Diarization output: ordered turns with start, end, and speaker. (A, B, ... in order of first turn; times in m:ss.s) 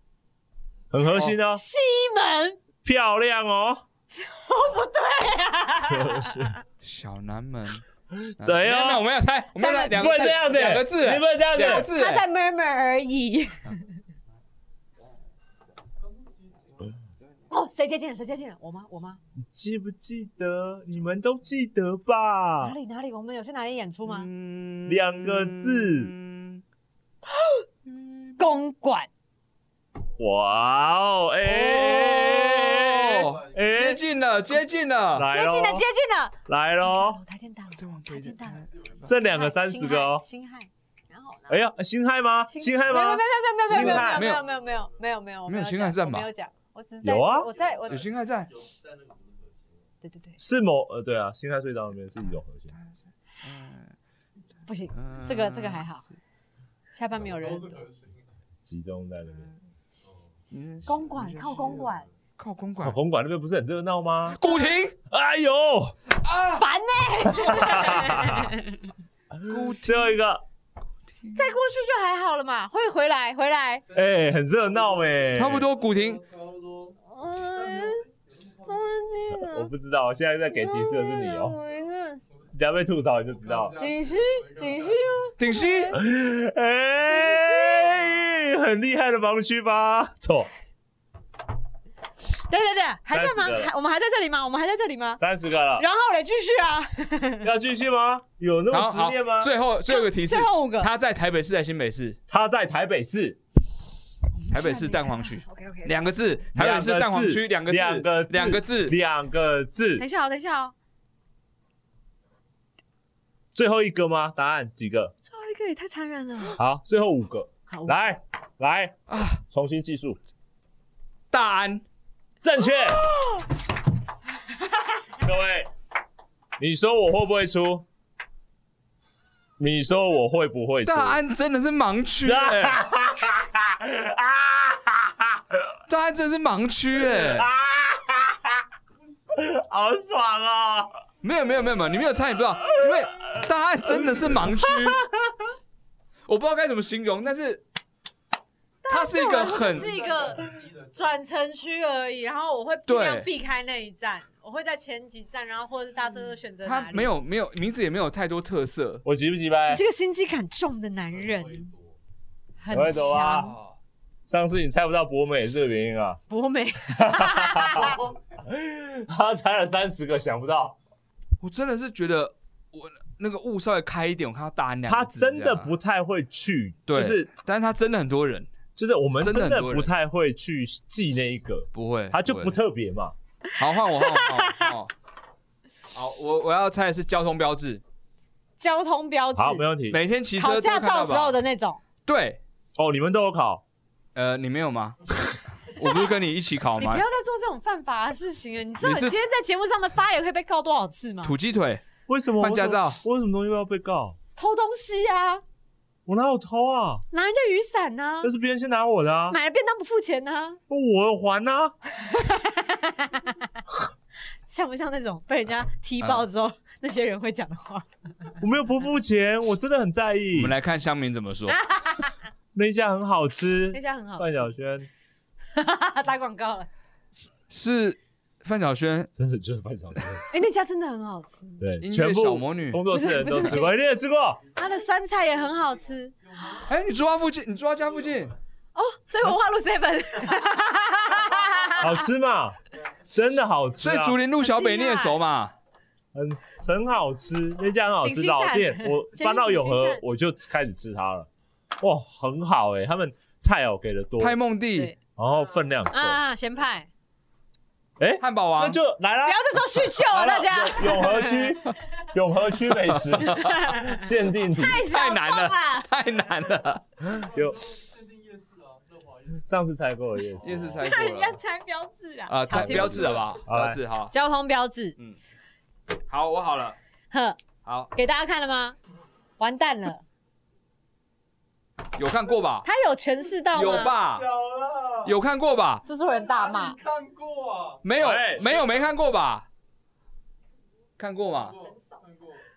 0:00.9-0:01.6 A
0:01.1-0:01.4 B
0:01.5-0:02.6 C
0:02.8-0:03.8 A
0:04.1-0:06.5 C
0:05.8-0:06.6 A
0:06.8-0:07.8 B
0:08.1-0:09.0 A
0:08.4-0:12.2 B
0:09.5-0:10.4 C
0:09.9-0:11.9 A
0:11.6-0:13.8 C
0:16.0-0:17.0 D
0:17.5-0:19.2 C
0:19.4-0:22.8 A
0:22.6-0:24.3 C
0:24.1-0:26.6 B
0:24.8-0:26.1 A
0:27.3-0:27.6 C
0:28.4-0:29.1 C
0:30.2-0:34.0 A
0:31.4-0:35.3 B
0:33.1-0:34.8 D
0:35.1-0:35.8 A
0:35.3-0:41.6 C
0:36.4-0:37.2 A
0:37.8-0:38.9 B
0:38.5-0:39.4 D
0:39.0-0:40.2 A
0:41.5-0:44.3 A
0:42.5-0:48.0 C
0:43.7-0:44.4 B
0:43.8-0:45.0 D
0:45.5-0:46.3 B
0:47.0-0:47.5 A
0:47.4-0:49.9 D
0:47.9-0:48.5 B
0:50.0-0:50.4 C
0:50.4-0:52.8 A
0:52.8-0:53.9 B
0:54.7-0:56.0 C
0:55.0-0:55.9 B
0:56.9-0:57.8 C
0:57.1-0:58.3 D
0:58.6-0:59.5 A
1:00.0-1:00.3 D
1:00.5-1:01.9 B
1:00.8-1:02.0 C
1:00.9-1:02.2 D
1:02.4-1:03.0 B
1:02.8-1:04.4 A
1:04.4-1:04.9 B
1:04.4-1:04.7 C
1:05.1-1:06.0 A
1:06.2-1:06.6 B
1:06.5-1:08.7 C
1:07.4-1:08.5 A
1:09.3-1:10.4 A
1:09.5-1:10.2 B
1:11.3-1:13.8 C
1:13.9-1:19.3 D
1:13.9-1:15.7 A
1:15.3-1:16.2 B
1:17.0-1:18.0 C
1:18.6-1:19.7 C
1:19.4-1:21.6 A
1:20.5-1:22.2 C
1:22.5-1:23.8 A
1:23.3-1:25.3 D
1:23.8-1:26.0 C
1:25.4-1:25.9 B
1:25.9-1:30.5 A
1:27.1-1:28.1 C
1:32.5-1:35.2 C
1:33.1-1:33.7 A
1:35.2-1:35.8 A
1:35.8-1:37.5 C
1:37.4-1:39.5 A
1:38.7-1:42.2 B
1:39.9-1:40.9 C
1:42.3-1:43.4 A
1:44.4-1:46.0 C
1:44.5-1:49.0 B
1:46.5-1:50.0 A
1:50.0-1:50.7 C
1:53.5-1:55.1 A
1:55.3-1:56.6 C
1:56.6-2:00.2 A
1:57.7-1:57.9 C
1:59.1-1:59.4 B
2:01.3-2:01.8 B
2:02.4-2:03.0 A
2:03.1-2:03.4 C
2:05.2-2:05.7 A
2:06.6-2:07.8 A
2:09.6-2:11.2 A
2:10.8-2:12.8 B
2:12.2-2:15.8 A
2:15.9-2:17.5 B
2:17.0-2:18.6 A
2:19.3-2:21.0 A
2:21.2-2:25.0 B
2:22.8-2:24.7 A
2:26.3-2:27.6 B
2:28.8-2:37.1 C
2:28.9-2:29.9 B
2:29.4-2:31.2 D
2:32.9-2:33.3 B
2:36.6-2:39.0 B
2:39.0-2:39.8 A
2:39.7-2:41.7 C
2:41.1-2:42.0 D
2:42.6-2:43.5 C
2:42.7-2:43.5 A
2:43.2-2:43.8 B
2:44.3-2:46.2 A
2:46.3-2:48.0 C
2:46.9-2:50.8 A
2:51.4-2:55.7 B
2:54.8-2:57.3 A
2:56.9-2:58.5 B
2:58.8-3:03.1 A
2:59.2-2:59.9 B
3:01.7-3:02.5 B
3:03.5-3:04.7 C
3:03.6-3:04.9 B
3:05.9-3:07.8 B
3:08.6-3:09.7 C
3:09.4-3:10.0 A
3:09.9-3:11.4 B
3:10.4-3:11.8 C
3:12.0-3:12.4 B
3:12.8-3:13.6 A
3:14.1-3:17.0 B
3:16.8-3:21.3 C
3:18.8-3:19.2 B
3:21.2-3:21.8 B
3:22.1-3:24.2 A
3:22.4-3:23.0 B
3:24.4-3:25.4 C
3:26.0-3:27.0 A
3:27.1-3:28.3 C
3:28.2-3:29.4 A
3:29.3-3:30.6 C
3:30.7-3:31.8 A
3:32.0-3:33.4 C
3:34.4-3:37.8 C
3:38.4-3:40.5 A
3:40.3-3:41.6 B
3:41.5-3:42.1 C
3:42.5-3:44.9 A
3:43.7-3:44.5 C
3:45.5-3:46.7 C
3:47.5-3:49.1 B
3:49.1-3:50.2 A
3:50.3-3:51.6 C
3:51.6-3:54.4 A
3:51.8-3:52.8 B
3:52.9-3:53.7 C
3:54.4-3:56.6 D
3:54.6-3:56.1 C
3:56.7-3:58.3 B
3:57.8-3:58.3 D
3:58.8-4:01.9 C
4:01.8-4:02.6 A
4:03.1-4:04.2 A
4:03.8-4:05.5 B
4:04.4-4:05.2 C
4:06.1-4:11.3 A
4:08.0-4:10.0 C
4:11.8-4:14.4 A
4:14.2-4:14.9 B
4:15.2-4:16.2 A
4:15.9-4:16.9 C
4:18.0-4:24.8 A
4:18.2-4:18.8 B
4:19.2-4:21.5 C
4:23.1-4:23.6 B
4:23.2-4:25.9 C
4:24.8-4:26.8 B
4:27.0-4:27.6 A
4:27.1-4:29.5 D
4:29.4-4:30.8 A
4:30.3-4:30.8 D
4:30.4-4:31.4 B
4:30.8-4:33.3 C
4:32.3-4:34.1 B
4:32.5-4:33.8 A
4:34.1-4:35.0 C
4:36.1-4:36.8 B
4:37.1-4:37.4 C
4:37.6-4:37.9 B
4:37.9-4:38.8 C
4:39.4-4:40.0 C
4:42.0-4:42.7 B
4:42.6-4:43.9 C
4:43.5-4:44.3 B
4:44.0-4:45.1 D
4:45.0-4:45.8 B
4:45.8-4:46.8 C
4:46.1-4:47.8 D
4:47.8-4:49.5 B
4:48.0-4:48.6 A
4:51.0-4:51.6 B
4:51.3-4:52.4 D